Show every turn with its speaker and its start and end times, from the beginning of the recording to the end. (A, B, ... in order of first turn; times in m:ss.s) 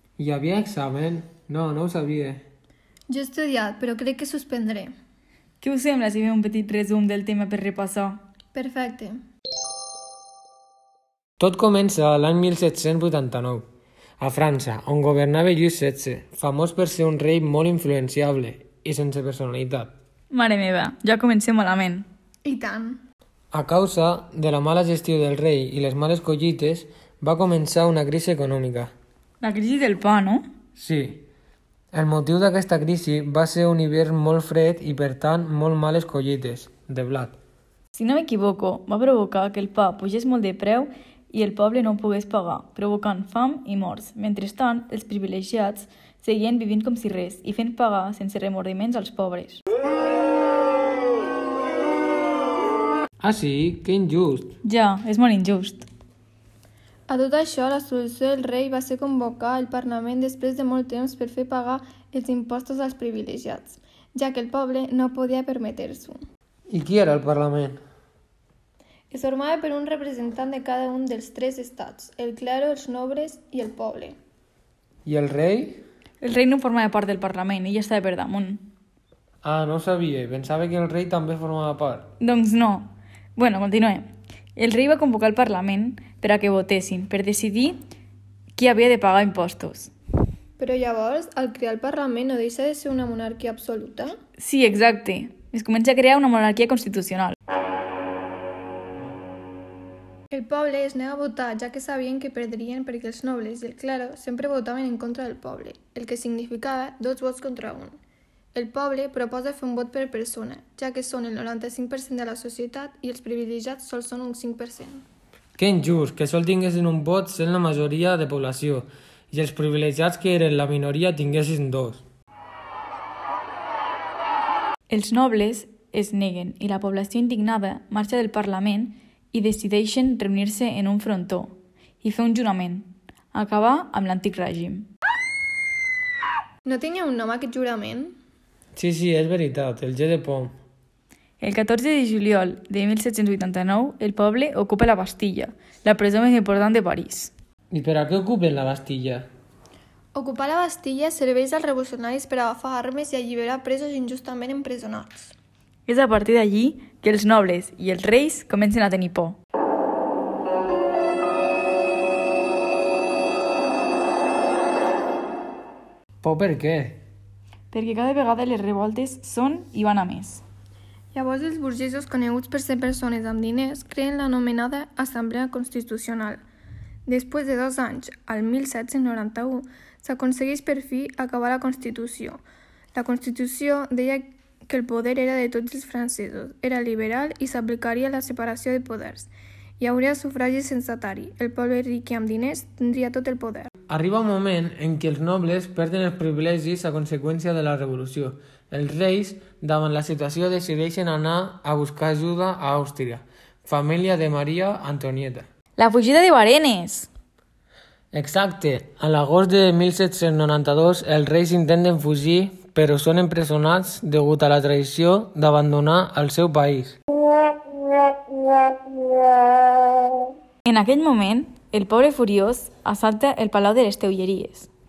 0:00.2-0:02.4 A
0:03.1-0:04.9 B
0:05.6-0:08.2 C
0:08.5-0:09.2 B
0:11.4-0:13.6 A
0:14.2-0:19.9 A
0:20.3-0:22.1 C
0:22.4-0:23.0 B
0:23.5-0:28.9 A
0:29.4-0:30.4 C
0:30.8-0:31.2 A
0:31.9-0:37.4 A
0:37.9-0:49.6 C
0:53.2-0:54.6 A
0:54.6-0:55.8 C
0:57.1-1:06.2 B
1:06.7-1:07.8 A
1:09.1-1:14.2 B
1:15.0-1:15.8 A
1:16.2-1:18.6 C
1:19.4-1:22.1 A
1:22.2-1:27.8 C
1:28.6-1:29.9 C
1:30.6-1:34.1 B
1:34.4-1:37.4 C
1:40.3-1:48.0 B
1:48.5-1:55.0 B
1:55.6-2:02.0 A
2:04.9-2:14.9 C
2:16.6-2:18.1 B
2:18.7-2:20.5 A
2:21.4-2:27.3 C
2:27.7-2:29.3 A
2:30.1-2:35.3 B
2:35.9-2:39.4 C
2:46.2-2:47.0 A
2:47.7-2:50.4 C
2:51.1-2:56.4 B
2:57.1-3:02.4 B
3:02.9-3:13.7 B
3:13.9-3:25.4 A
3:25.8-3:27.1 C
3:28.1-3:37.0 A
3:40.6-3:44.7 C